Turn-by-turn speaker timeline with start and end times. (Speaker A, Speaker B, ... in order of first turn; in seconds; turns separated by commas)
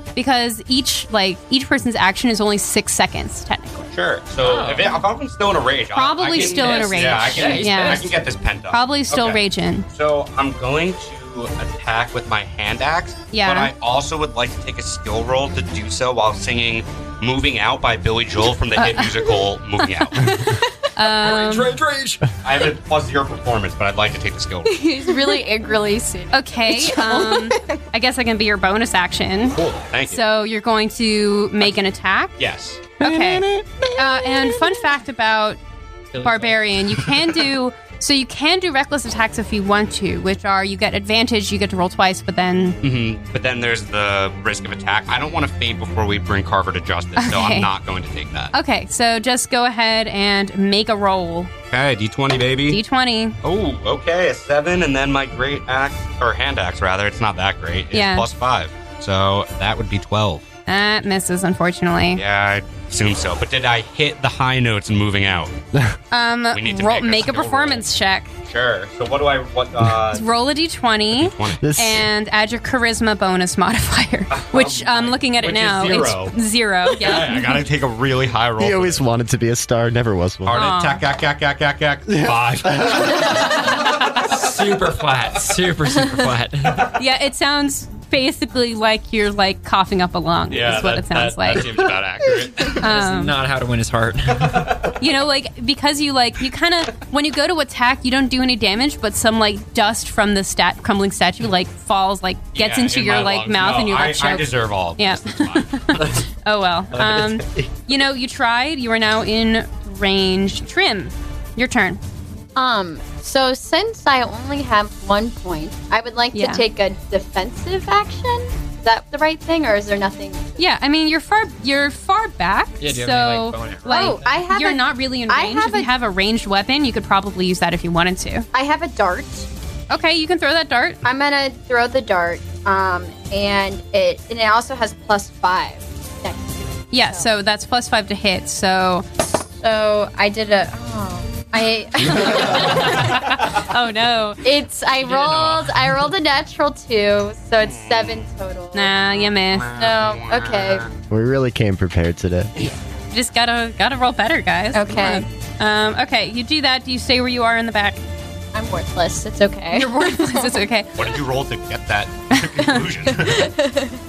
Speaker A: 0.1-3.9, Speaker B: 3.9-20.4, Speaker C: 4.4-5.0, Speaker A: 5.9-8.1, Speaker C: 6.3-8.1, Speaker A: 8.7-9.9, Speaker A: 13.3-13.7, Speaker A: 18.8-19.3, Speaker A: 20.1-21.7, Speaker C: 21.1-22.3, Speaker B: 22.4-24.8, Speaker D: 24.6-27.5, Speaker A: 26.3-32.4, Speaker B: 29.5-30.2, Speaker B: 32.4-32.9, Speaker A: 33.0-35.6, Speaker E: 33.0-34.5, Speaker C: 36.1-36.7, Speaker A: 36.2-42.8, Speaker B: 42.8-48.5, Speaker A: 47.1-47.7, Speaker A: 48.5-51.5, Speaker B: 51.7-52.8, Speaker A: 52.7-53.4, Speaker B: 53.4-60.4, Speaker A: 57.9-58.3, Speaker A: 60.7-62.2, Speaker B: 62.1-65.5, Speaker A: 66.1-68.3, Speaker B: 66.5-67.8, Speaker B: 68.5-70.2, Speaker A: 70.1-77.6, Speaker B: 71.1-71.6, Speaker E: 71.6-72.0, Speaker B: 74.3-76.3, Speaker B: 76.9-79.0, Speaker E: 78.6-80.6, Speaker B: 80.4-83.8, Speaker A: 80.5-81.0, Speaker E: 82.1-83.1, Speaker C: 84.2-86.9, Speaker A: 86.9-91.7, Speaker B: 90.5-92.8, Speaker C: 92.6-94.9, Speaker A: 92.7-93.3, Speaker B: 94.5-94.9, Speaker A: 95.0-112.0, Speaker B: 102.5-106.2, Speaker D: 112.5-120.7, Speaker A: 116.3-116.6, Speaker A: 120.6-128.4, Speaker C: 122.8-124.4, Speaker D: 123.8-125.9, Speaker D: 128.5-129.5, Speaker A: 129.9-131.0, Speaker D: 131.0-137.3, Speaker A: 136.9-139.1, Speaker D: 139.4-143.2, Speaker A: 142.2-144.4, Speaker D: 144.4-149.1, Speaker C: 145.0-146.0, Speaker A: 148.7-149.7, Speaker B: 149.7-150.7, Speaker D: 149.7-150.9, Speaker E: 151.1-152.5, Speaker A: 152.6-158.0, Speaker D: 154.7-155.2, Speaker D: 158.5-160.6, Speaker A: 159.7-161.0, Speaker B: 160.9-163.5, Speaker A: 162.3-162.8, Speaker D: 163.2-164.0